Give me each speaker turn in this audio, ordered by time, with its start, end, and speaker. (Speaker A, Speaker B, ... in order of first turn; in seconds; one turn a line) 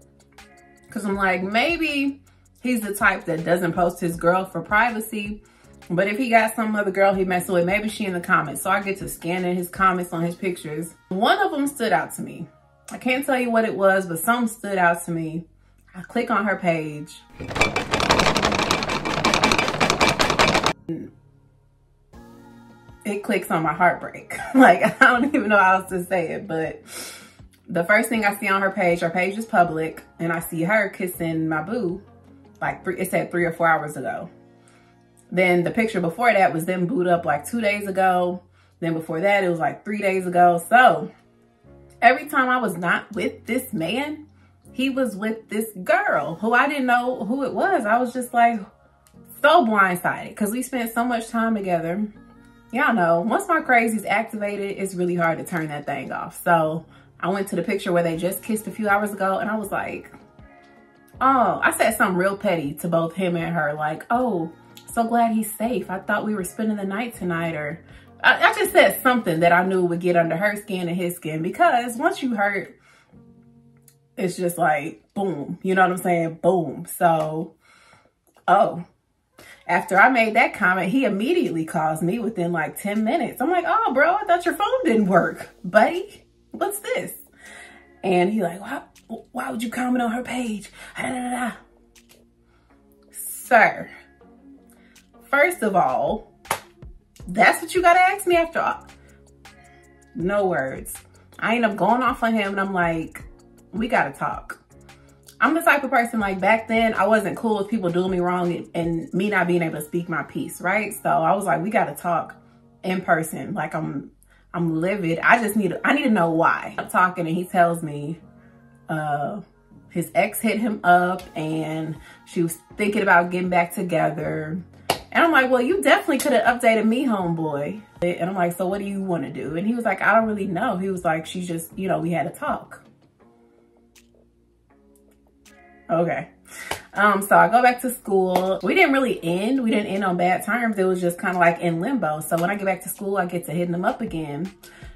Speaker A: 0.9-17.2
Speaker A: 23.0-32.0
Speaker A: 32.6-34.3
Speaker A: 35.3-41.1
Speaker A: 42.0-44.2
Speaker A: 44.7-48.6
Speaker A: 49.3-52.1
Speaker A: 52.7-60.1
Speaker A: 61.2-72.7
Speaker A: 74.2-77.5
Speaker A: 78.5-78.8
Speaker A: 79.7-87.2
Speaker A: 88.0-91.6
Speaker A: 93.1-93.9
Speaker A: 95.2-96.3
Speaker A: 97.3-98.8
Speaker A: 100.1-104.6
Speaker A: 105.4-118.2
Speaker A: 118.9-124.6
Speaker A: 125.1-132.8
Speaker A: 135.9-136.3
Speaker A: 136.9-144.5